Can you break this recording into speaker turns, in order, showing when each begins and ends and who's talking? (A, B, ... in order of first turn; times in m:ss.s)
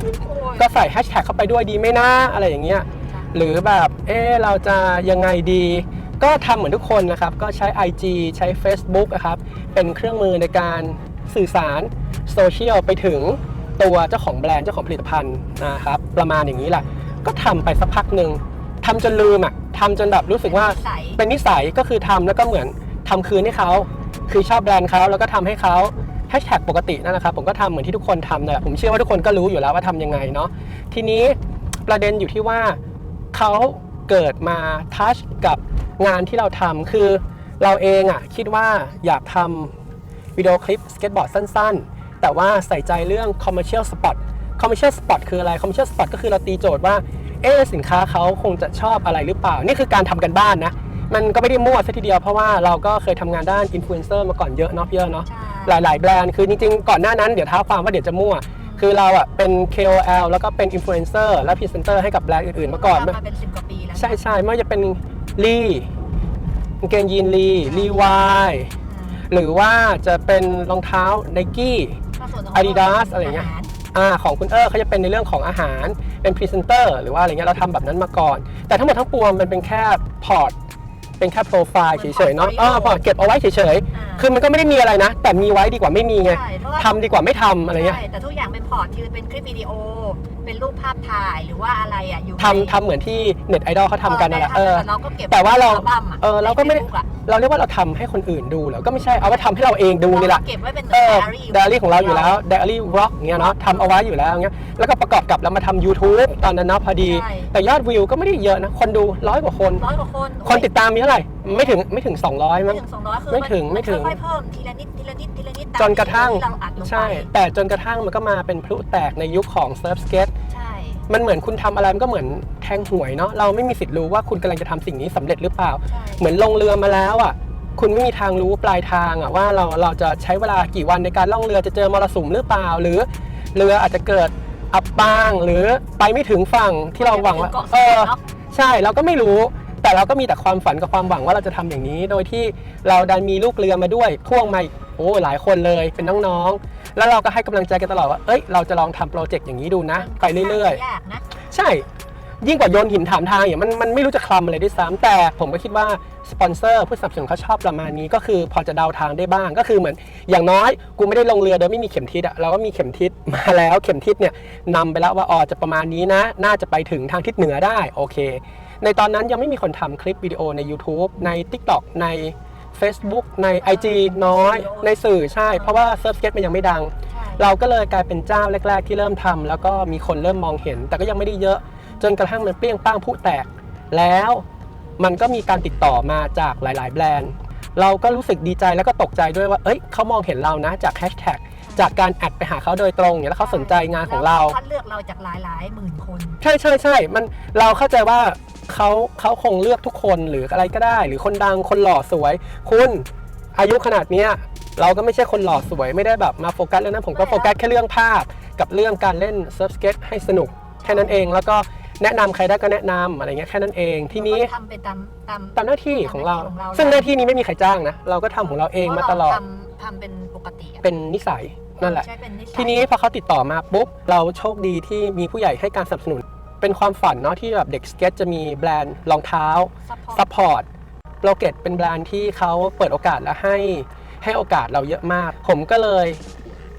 0:00.2-0:00.7 A
0:00.6-0:32.8 B
0:20.4-0:21.2 A
0:33.3-0:39.7 B
0:40.4-1:03.2 B
0:55.3-0:55.8 A
0:58.6-0:58.9 A
1:02.6-1:04.3 A
1:04.0-1:05.9 B
1:06.8-1:08.7 B
1:07.6-1:08.2 A
1:08.8-1:09.3 A
1:09.3-1:12.0 B
1:12.2-1:13.7 A
1:12.5-1:20.6 B
1:21.2-1:28.0 B
1:21.9-1:23.0 A
1:23.9-1:24.3 A
1:26.2-1:27.0 A
1:27.7-1:32.8 A
1:32.4-1:49.8 B
1:34.1-1:37.1 A
1:40.1-1:42.4 A
1:43.4-1:44.0 A
1:47.0-1:47.5 A
1:49.8-1:50.7 A
1:50.4-1:54.2 B
1:51.4-1:51.8 A
1:52.6-1:57.3 A
1:55.8-2:00.3 B
2:00.5-2:01.0 A
2:01.1-2:30.8 B
2:05.9-2:06.2 A
2:17.0-2:18.2 A
2:26.0-2:26.4 A
2:30.0-2:31.2 A
2:31.5-2:31.9 B
2:32.4-3:04.4 B
2:53.6-2:55.8 A
2:57.1-2:57.5 A
3:05.0-3:14.6 B
3:11.7-3:12.0 A
3:13.4-3:16.4 A
3:16.4-3:34.5 B
3:27.1-3:27.5 A
3:30.8-3:31.2 A
3:34.1-3:37.1 A
3:35.6-3:39.4 B
3:38.8-3:40.8 A
3:40.8-3:50.7 B
3:41.8-3:42.8 A
3:49.9-3:50.3 A
3:51.2-3:56.2 B